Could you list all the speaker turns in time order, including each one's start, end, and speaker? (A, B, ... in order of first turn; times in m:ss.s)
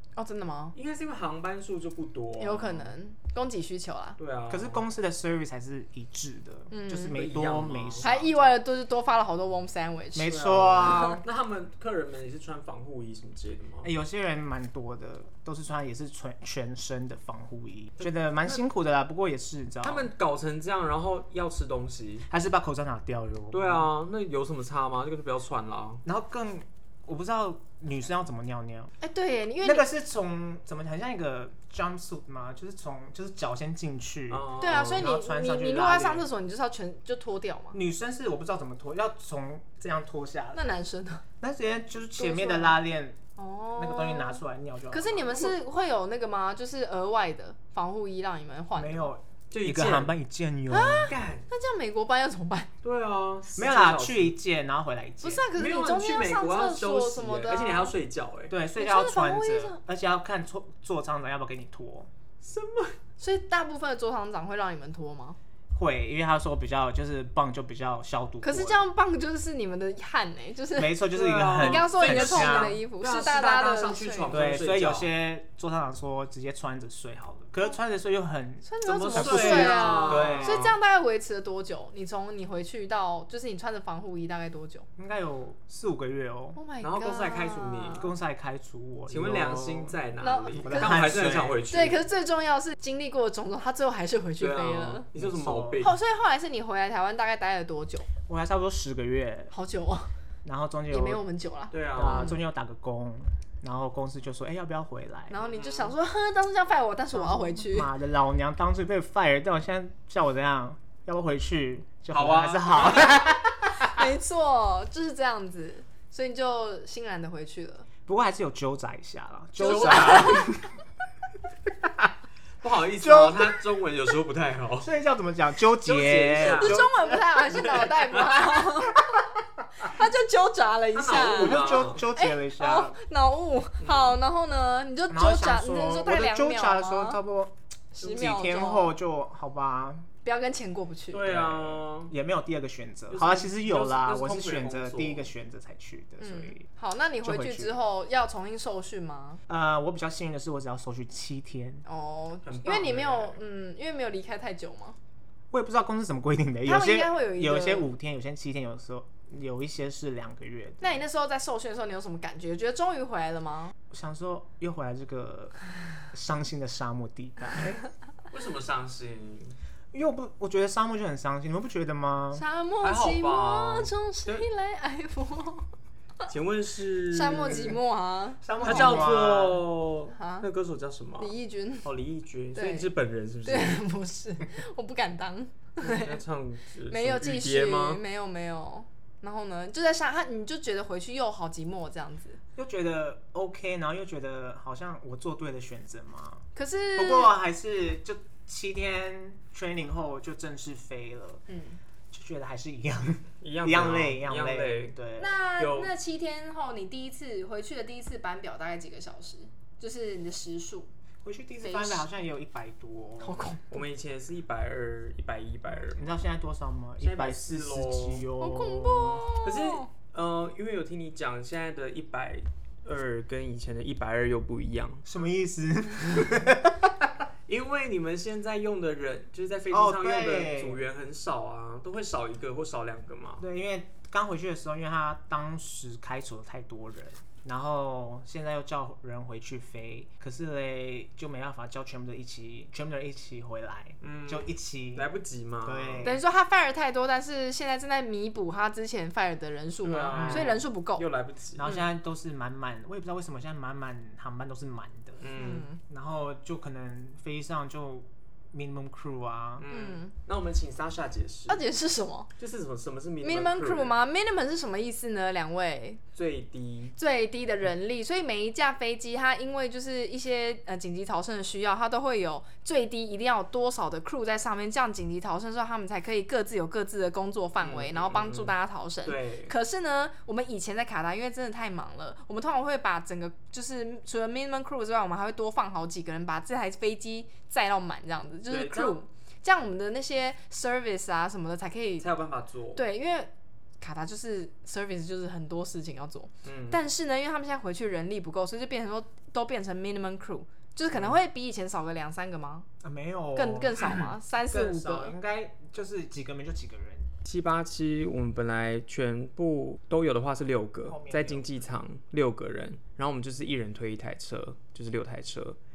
0:00.2-0:00.8 A
0:00.7-0:02.9 B
0:02.4-0:04.2 A
0:04.2-0:04.8 B
0:04.5-0:08.5 C
0:06.7-0:07.2 A
0:07.1-0:08.1 B
0:08.0-0:11.1 A
0:10.1-0:11.2 C
0:10.2-0:13.9 B
0:13.8-0:20.1 C
0:19.8-0:22.2 B
0:22.3-0:23.9 C
0:23.5-0:26.0 B
0:26.0-0:28.9 C
0:29.0-0:29.9 A
0:29.6-0:36.3 C
0:34.3-0:35.1 B
0:34.6-0:37.8 A
0:37.7-0:40.6 C
0:40.5-0:41.2 A
0:41.4-0:43.2 C
0:42.2-0:42.8 A
0:43.4-0:49.1 A
0:43.8-0:45.6 C
0:48.7-0:51.2 C
0:49.5-0:50.1 B
0:50.7-0:52.7 A
0:51.0-0:51.4 B
0:52.8-0:54.3 B
0:53.5-0:55.5 C
0:55.2-0:57.9 A
0:55.6-0:58.5 B
0:58.5-1:02.1 C
0:58.8-0:59.8 A
1:02.4-1:03.0 B
1:03.2-1:05.4 A
1:05.7-1:08.8 C
1:08.4-1:11.1 A
1:10.8-1:12.8 C
1:11.1-1:15.1 B
1:11.6-1:14.4 A
1:14.3-1:20.7 C
1:18.6-1:24.9 A
1:18.8-1:20.7 B
1:25.0-1:26.6 C
1:26.6-1:28.1 A
1:26.8-1:28.1 B
1:27.9-1:30.0 C
1:29.1-1:32.0 B
1:30.2-1:35.0 A
1:30.6-1:31.6 C
1:34.4-1:36.0 B
1:35.1-1:35.9 C
1:35.8-1:38.1 A
1:38.3-1:39.5 C
1:39.5-1:40.1 A
1:40.4-1:41.2 C
1:40.9-1:42.4 A
1:41.7-1:42.3 B
1:41.9-1:45.4 C
1:45.3-1:47.9 A
1:45.5-1:45.9 B
1:47.1-1:54.0 C
1:52.1-1:53.3 B
1:53.7-1:57.8 A
1:58.0-2:00.7 C
1:59.6-2:00.6 A
1:59.6-2:00.5 B
2:02.6-2:04.9 B
2:03.0-2:03.6 C
2:04.8-2:07.4 C
2:05.8-2:06.9 B
2:06.4-2:09.1 A
2:07.4-2:08.6 B
2:09.8-2:17.2 A
2:10.9-2:12.0 B
2:11.2-2:13.0 C
2:13.8-2:14.2 B
2:15.1-2:20.1 C
2:17.9-2:18.9 A
2:20.2-2:21.3 A
2:21.1-2:22.1 B
2:21.2-2:26.7 C
2:23.1-2:25.3 B
2:26.2-2:29.4 A
2:27.2-2:27.8 C
2:29.5-2:31.8 C
2:31.8-2:35.0 A
2:32.4-2:33.4 B
2:35.5-2:41.0 C
2:36.6-2:37.9 A
2:40.8-2:43.7 A
2:43.9-2:45.5 C
2:46.1-2:47.8 C
2:48.3-2:49.6 B
2:49.9-2:52.4 C
2:52.3-2:55.6 A
2:52.8-2:54.4 B
2:56.3-2:57.8 B
2:57.1-2:59.1 A
2:58.4-2:59.7 C
2:58.6-3:03.8 B
3:00.1-3:00.5 A
3:01.2-3:01.9 A
3:02.5-3:02.9 A
3:03.4-3:06.2 A
3:05.8-3:08.0 B
3:06.9-3:12.4 A
3:12.6-3:16.4 C
3:16.5-3:17.3 A
3:17.0-3:21.4 C
3:21.5-3:21.8 A
3:22.1-3:25.4 C
3:23.4-3:25.0 B
3:25.2-3:30.9 A
3:25.6-3:25.9 B
3:31.2-3:33.5 C
3:31.6-3:32.0 A
3:33.2-3:33.7 A
3:33.7-3:36.1 B
3:35.8-3:39.2 C
3:37.0-3:38.3 B
3:38.4-3:39.9 A
3:39.3-3:45.0 B
3:45.0-3:47.1 C
3:47.5-3:53.4 B
3:49.7-3:50.8 C
3:53.4-4:05.1 C
4:04.0-4:06.1 B
4:05.6-4:06.2 C
4:06.0-4:11.0 A
4:09.8-4:11.7 B
4:10.1-4:10.6 C
4:11.6-4:15.2 C
4:15.2-4:15.7 B
4:15.3-4:15.8 A
4:15.8-4:19.6 C
4:19.6-4:21.6 B
4:19.7-4:20.1 A
4:21.5-4:22.3 A
4:22.4-4:23.9 B
4:23.2-4:26.0 A
4:26.1-4:26.9 B
4:27.0-4:52.1 A
4:37.6-4:38.5 B
4:39.0-4:39.5 B
4:48.5-4:49.0 B
4:52.0-4:52.8 B
4:52.7-5:02.7 A
4:56.4-4:56.8 B
5:02.8-5:07.1 C
5:03.3-5:05.1 A
5:07.2-5:15.6 B
5:10.8-5:11.7 C